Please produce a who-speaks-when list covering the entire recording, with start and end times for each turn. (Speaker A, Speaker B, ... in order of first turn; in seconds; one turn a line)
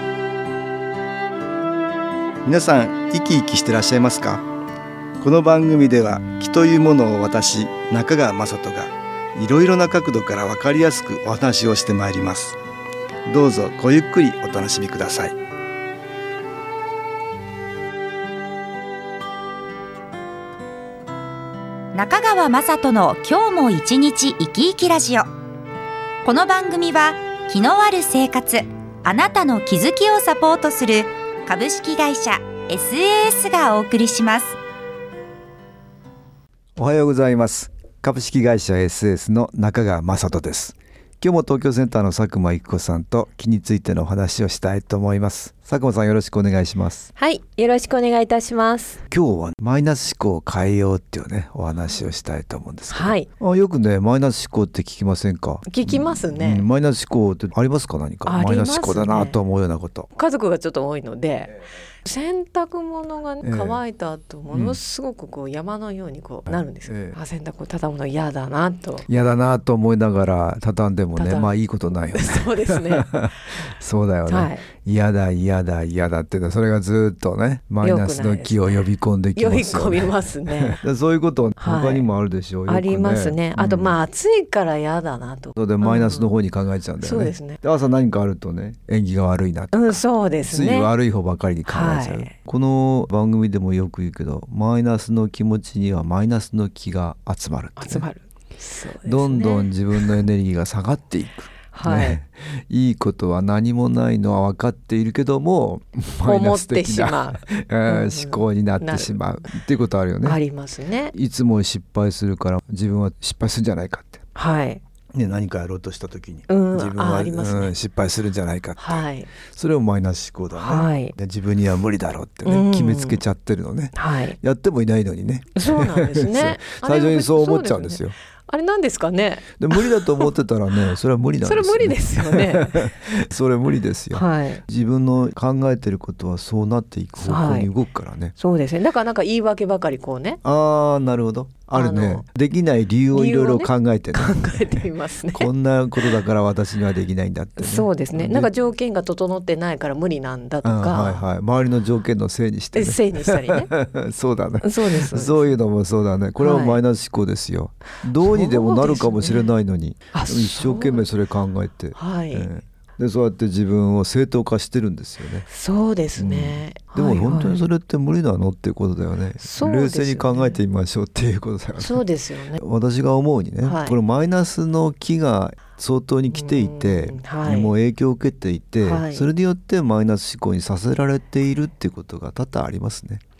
Speaker A: 2.4-4.4
Speaker A: 5.2-12.6
Speaker A: 13.2-15.3
Speaker B: 21.9-25.3
Speaker B: 26.2-34.5
Speaker A: 36.8-47.1
Speaker C: 47.1-49.0
Speaker A: 49.1-60.1
Speaker C: 52.9-53.3
Speaker C: 55.6-56.6
Speaker C: 58.2-59.4
Speaker C: 60.1-69.1
Speaker A: 63.4-63.8
Speaker A: 64.5-64.8
Speaker A: 66.5-67.2
Speaker A: 69.1-84.0
Speaker C: 71.2-73.1
Speaker C: 74.3-74.7
Speaker C: 77.8-78.8
Speaker C: 79.3-80.8
Speaker C: 81.6-82.1
Speaker C: 82.7-86.3
Speaker A: 85.5-98.1
Speaker C: 87.0-87.6
Speaker C: 89.7-90.9
Speaker C: 91.7-92.3
Speaker C: 97.8-100.1
Speaker A: 99.0-110.4
Speaker C: 101.7-102.2
Speaker C: 106.2-109.2
Speaker C: 110.2-111.1
Speaker A: 111.1-114.2
Speaker C: 114.3-114.8
Speaker A: 115.1-128.1
Speaker C: 116.5-117.7
Speaker C: 118.8-119.3
Speaker C: 120.5-121.1
Speaker C: 122.4-123.2
Speaker C: 123.9-124.4
Speaker C: 125.5-130.3
Speaker A: 129.6-138.3
Speaker C: 131.4-133.2
Speaker C: 134.1-134.6
Speaker C: 137.2-137.7
Speaker C: 138.4-140.4
Speaker A: 140.4-148.5
Speaker C: 141.7-142.2
Speaker C: 143.1-145.5
Speaker C: 147.6-151.2
Speaker A: 150.6-165.5
Speaker C: 152.7-153.7
Speaker C: 154.6-155.5
Speaker C: 156.4-156.8
Speaker C: 158.2-159.5
Speaker C: 160.1-161.1
Speaker C: 161.9-162.5
Speaker C: 165.5-167.6
Speaker A: 166.2-172.0
Speaker C: 169.4-170.6
Speaker C: 171.8-172.6
Speaker A: 172.6-183.2
Speaker C: 173.6-173.9
Speaker C: 176.3-177.7
Speaker C: 178.8-179.3